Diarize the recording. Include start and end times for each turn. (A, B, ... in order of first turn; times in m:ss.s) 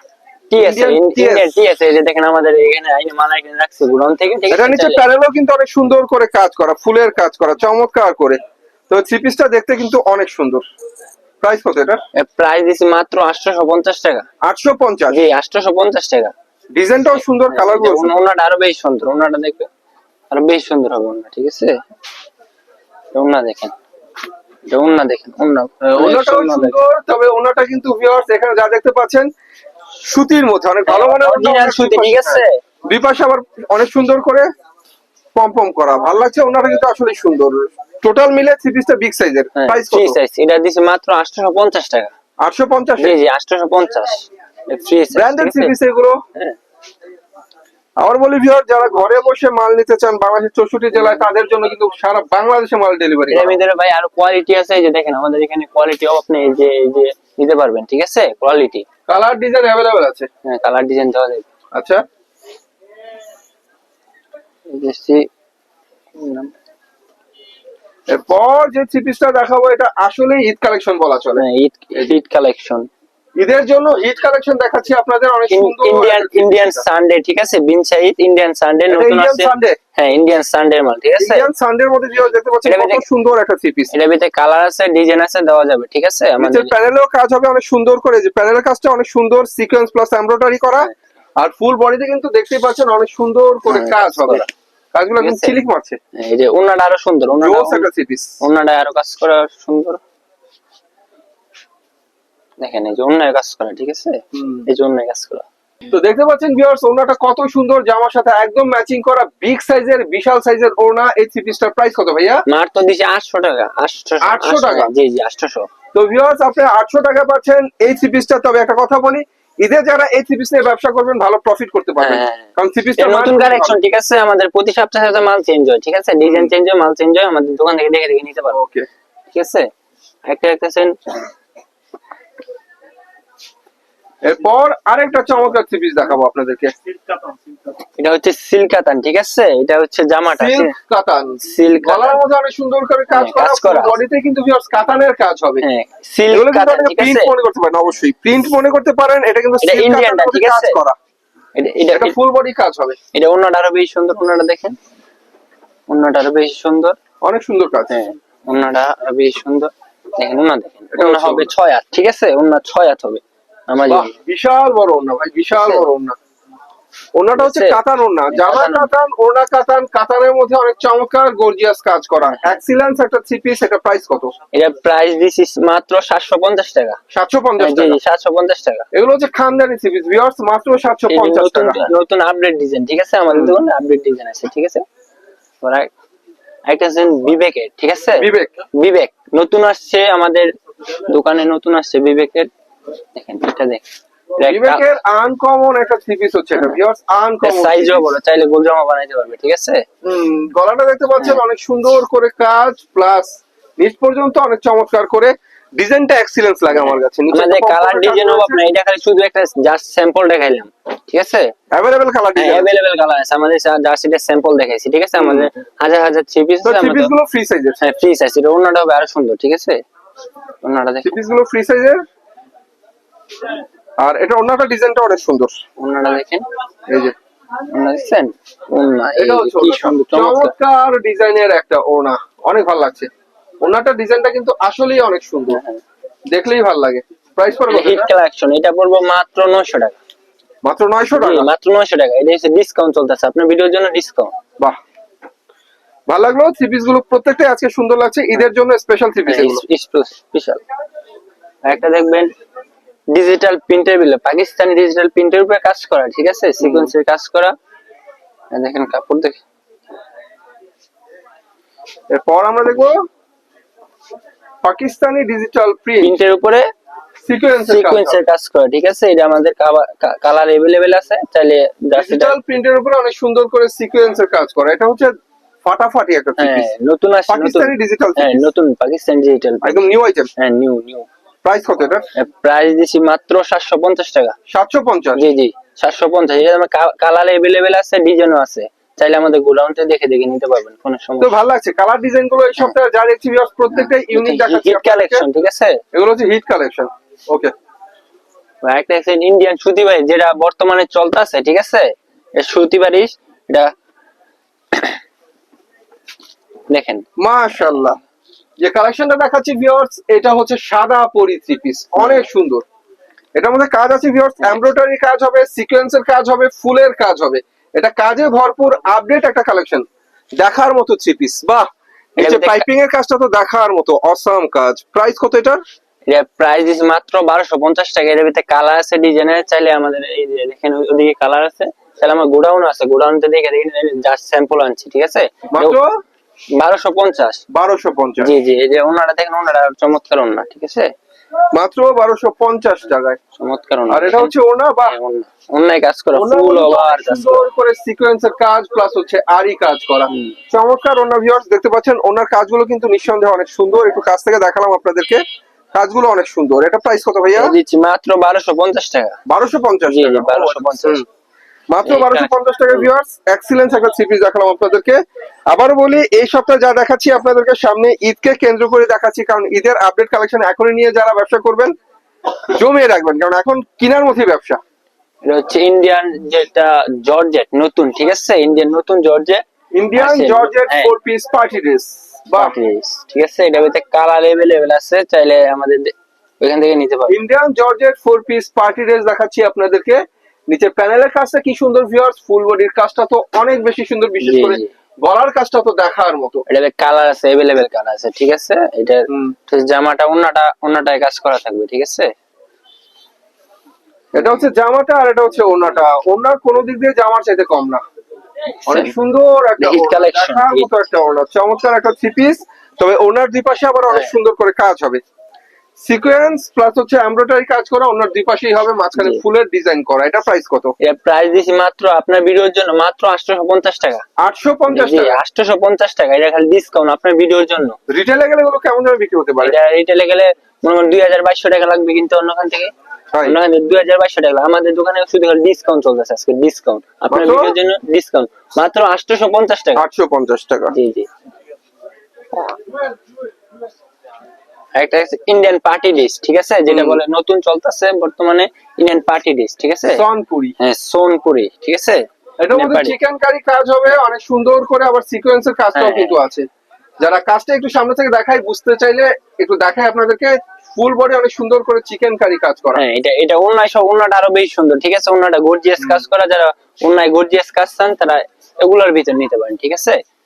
0:00.5-0:05.0 A
0:00.5-0:01.6 B
0:04.5-0:10.6 B
0:11.4-0:12.0 B
0:12.2-0:14.2 A
0:14.4-0:15.2 B
0:15.1-0:16.3 A
0:16.7-0:18.1 B
0:17.5-0:19.7 A
0:20.3-0:21.7 A
0:23.1-0:23.7 A
0:24.7-0:26.8 A
0:25.8-0:29.3 B
0:30.0-0:34.5 B
0:30.9-0:32.6 A
0:35.3-0:40.2 B
0:39.5-0:42.1 A
0:42.4-0:43.2 B
0:43.0-0:45.7 A
0:45.1-0:46.2 B
0:48.0-0:53.6 B
0:53.3-0:58.8 A
0:59.1-1:00.3 B
1:00.4-1:01.5 A
1:01.7-1:02.0 B
1:04.7-1:05.3 A
1:06.2-1:06.5 A
1:08.1-1:11.4 B
1:11.4-1:12.9 A
1:13.4-1:16.8 B
1:15.5-1:21.5 A
1:18.9-1:19.8 B
1:21.2-1:23.9 B
1:22.6-1:23.0 A
1:23.9-1:26.7 A
1:26.4-1:36.0 B
1:33.7-1:34.5 A
1:35.2-1:35.6 A
1:36.2-1:37.8 A
1:37.4-1:38.4 B
1:38.4-1:40.0 A
1:42.6-1:45.4 A
1:44.3-1:44.7 B
1:45.9-1:52.4 B
1:52.5-1:55.7 A
1:54.2-1:54.9 B
1:55.9-2:03.8 B
2:02.0-2:08.6 A
2:08.5-2:08.8 B
2:09.3-2:09.7 A
2:10.3-2:11.2 A
2:14.2-2:16.7 B
2:18.0-2:20.7 A
2:20.3-2:25.6 B
2:21.5-2:22.2 A
2:23.1-2:24.0 A
2:25.6-2:27.3 A
2:26.3-2:31.0 B
2:29.6-2:30.8 A
2:31.6-2:32.1 A
2:31.9-2:33.0 B
2:33.1-2:34.8 A
2:35.9-2:37.0 A
2:37.2-2:37.9 B
2:37.9-2:44.1 A
2:40.9-2:41.5 B
2:43.8-2:46.2 B
2:47.2-2:54.3 B
2:47.4-2:47.8 A
2:48.3-2:48.9 A
2:52.2-2:52.5 A
2:54.5-2:57.0 A
2:57.1-2:58.0 B
2:57.6-2:58.8 A
2:58.9-3:01.8 B
3:01.1-3:04.8 A
3:03.3-3:03.6 B
3:05.6-3:05.9 A
3:06.7-3:10.5 A
3:08.2-3:08.5 B
3:11.1-3:12.5 A
3:13.2-3:13.8 A
3:14.4-3:14.8 A
3:14.4-3:18.0 B
3:17.4-3:19.8 A
3:20.0-3:28.6 B
3:26.7-3:31.5 A
3:31.7-3:32.7 B
3:32.4-3:37.1 A
3:35.2-3:35.5 B
3:36.6-3:37.8 B
3:37.8-3:39.8 A
3:40.6-3:41.1 A
3:41.0-3:42.0 B
3:44.0-3:45.6 B
3:45.8-3:46.4 A
3:47.7-3:50.5 A
3:49.2-3:53.1 B
3:53.6-3:55.6 B
3:55.5-3:55.8 A
3:56.3-3:58.1 B
3:57.7-4:00.0 A
4:00.6-4:01.5 B
4:01.1-4:04.3 A
4:06.1-4:09.6 B
4:09.3-4:10.6 A
4:11.6-4:12.3 A
4:13.1-4:17.5 A
4:16.6-4:16.9 B
4:18.5-4:19.4 A
4:22.1-4:23.0 B
4:24.6-4:26.1 B
4:26.0-4:26.6 A
4:27.3-4:28.2 B
4:27.7-4:32.4 A
4:31.9-4:35.1 B
4:35.6-4:36.7 B
4:36.4-4:39.8 A
4:37.3-4:38.5 B
4:39.6-4:40.3 B
4:40.4-4:41.1 A
4:41.4-4:42.1 B
4:42.2-4:44.3 A
4:44.5-4:45.2 B
4:45.2-4:51.4 A
4:51.2-4:55.2 B
4:53.7-4:55.8 A
4:55.9-4:57.5 B
4:58.6-5:03.7 A
5:06.7-5:07.0 A
5:07.2-5:08.0 B
5:08.6-5:12.6 B
5:12.0-5:12.2 A
5:13.4-5:19.8 B
5:20.4-5:25.6 B
5:22.2-5:22.7 A
5:26.1-5:35.8 A
5:35.5-5:35.9 B
5:36.6-5:37.4 A
5:37.5-5:38.3 B
5:38.2-5:40.9 A
5:41.5-5:43.2 B
5:43.4-5:44.3 A
5:43.9-5:45.0 B
5:44.9-5:47.5 A
5:46.1-5:55.2 B
5:50.1-5:50.4 A
5:55.7-5:57.6 B
5:57.4-5:59.2 A
5:59.3-6:01.0 B
5:59.9-6:01.0 A
6:01.7-6:11.7 B
6:01.8-6:02.8 A
6:12.5-6:14.6 B
6:15.2-6:19.4 A
6:19.7-6:22.6 B
6:20.0-6:20.9 A
6:22.3-6:27.2 A
6:27.1-6:36.4 B
6:34.2-6:34.7 A
6:36.5-6:42.1 A
6:39.1-6:39.3 B
6:44.1-6:47.8 B
6:44.2-6:44.4 A
6:48.6-6:55.0 B
6:49.6-6:50.7 A
6:55.8-7:00.7 B
6:59.0-6:59.2 A
7:00.8-7:04.0 A
7:04.2-7:05.2 B
7:04.7-7:07.8 A
7:07.9-7:09.6 B
7:09.4-7:12.7 A
7:13.2-7:19.8 A
7:17.1-7:17.6 B
7:19.8-7:20.7 B
7:20.7-7:21.1 A
7:24.7-7:30.0 A
7:26.7-7:27.0 B
7:29.9-7:30.5 B
7:30.6-7:32.9 A
7:32.4-7:36.4 B
7:35.7-7:36.2 A
7:37.0-7:42.8 B
7:42.7-7:50.0 A
7:45.8-7:46.0 B